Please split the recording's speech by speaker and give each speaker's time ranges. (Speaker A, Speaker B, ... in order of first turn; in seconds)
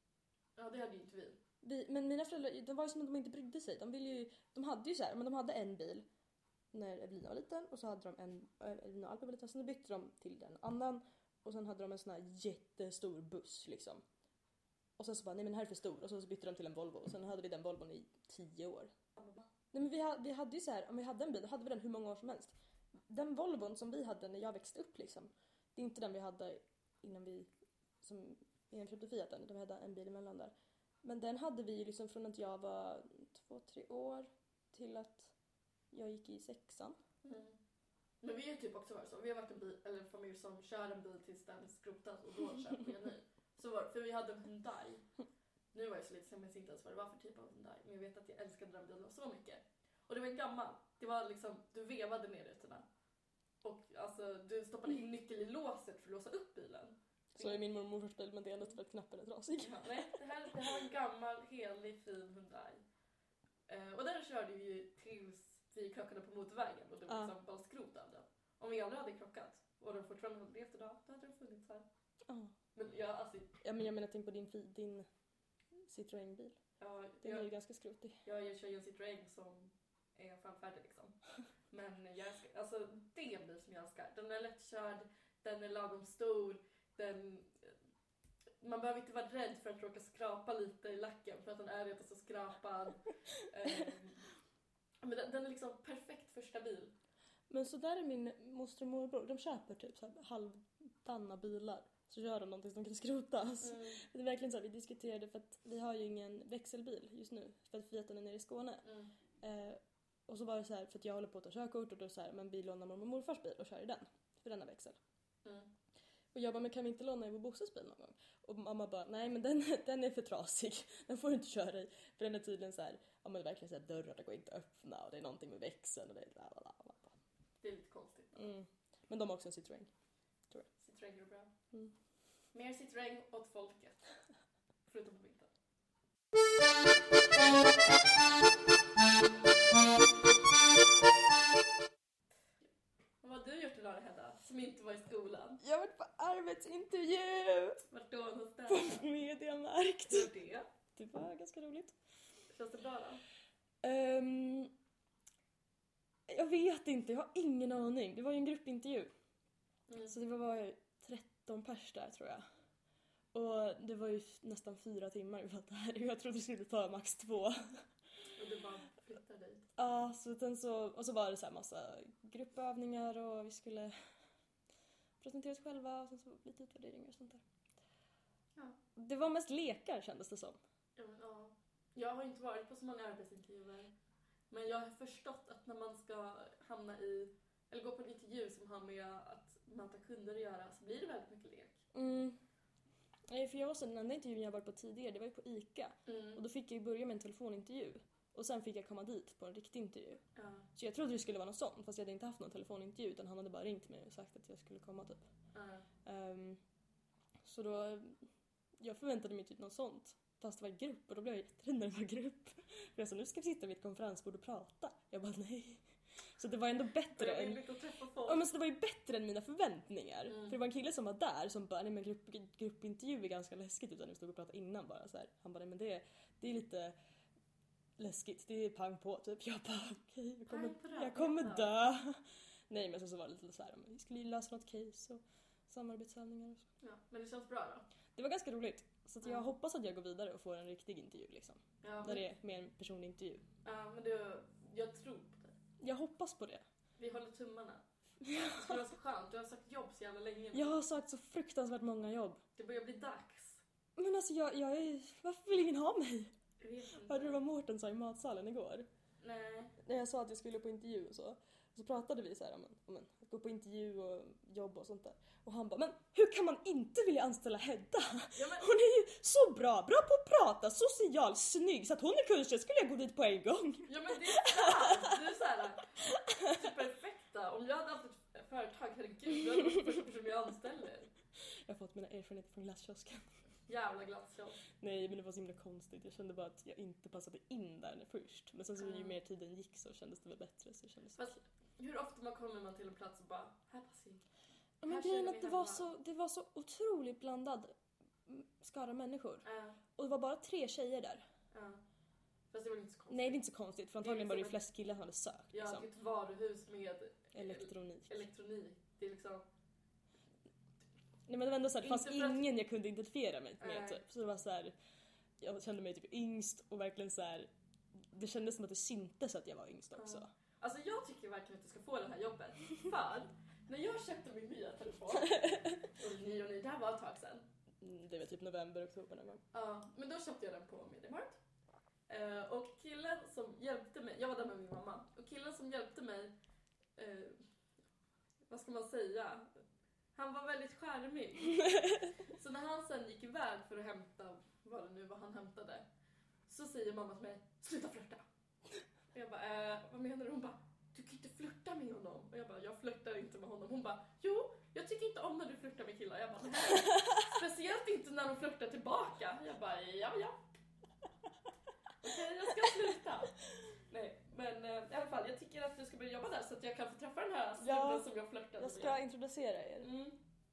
Speaker A: 0.6-1.4, 19.2-19.4, 37.2-37.5, 38.2-45.0, 45.7-52.8, 53.6-57.6, 59.6-62.8, 63.7-71.8, 72.7-73.5, 76.8-77.5, 78.2-81.2, 81.7-87.7, 88.6-94.2, 95.0-96.9, 103.6-104.0, 108.8-109.1, 115.4-115.7, 127.6-128.5, 130.8-131.5, 132.5-134.0, 134.9-135.5, 143.2-145.6, 147.9-149.1, 150.1-150.7, 152.5-153.2, 159.9-160.1, 168.3-169.7, 180.9-183.9, 184.5-191.8, 196.1-196.4, 200.3-200.7, 205.5-205.8, 217.1-218.4, 220.3-220.5, 230.5-231.8, 236.8-237.8, 239.2-239.5, 241.8-242.2, 243.6-245.6, 247.0-247.8, 248.5-250.8, 252.6-253.6, 256.6-257.4, 259.2-259.8, 268.3-268.7, 273.9-281.1, 283.7-284.6, 288.8-289.1, 291.2-294.2, 294.8-295.9, 299.4-299.8, 301.5-301.8, 302.5-303.4, 304.0-304.6, 305.5-309.4, 311.8-312.5, 313.6-314.0, 319.9-327.4, 329.5-331.4, 332.1-336.3, 337.0-337.4, 338.5-339.5, 340.1-345.8, 346.5-348.2, 349.1-360.4, 362.0-363.4, 363.9-369.0, 369.8-370.2
Speaker B: 1.6-6.0, 6.7-14.0, 15.0-18.9, 19.7-22.5, 23.1-27.5, 28.0-35.3, 35.9-37.0, 57.3-60.6, 67.1-67.3, 72.3-72.5, 73.6-75.1, 75.8-76.6, 77.2-78.2, 97.5-108.8, 109.4-115.0, 116.3-127.1, 128.3-129.9, 145.6-147.8, 148.7-150.3, 150.9-151.9, 153.8-154.7, 156.3-159.1, 160.0-162.4, 163.3-167.8, 169.8-173.9, 175.2-177.4, 178.9-180.6, 191.9-192.4, 193.3-200.2, 200.7-205.2, 206.0-206.6, 207.4-208.2, 208.8-215.8, 216.4-217.6, 218.2-226.9, 228.0-236.7, 238.1-243.4, 245.8-246.6, 248.2-248.8, 250.5-252.4, 253.9-256.3, 256.9-258.9, 259.8-275.2, 276.0-276.8, 281.6-283.3, 284.8-291.3, 294.8-297.7, 298.2-299.4, 300.0-301.2, 303.1-305.9, 307.3-308.2, 311.3-314.7, 315.4-320.3, 325.1-325.8, 327.8-329.4, 367.6-369.9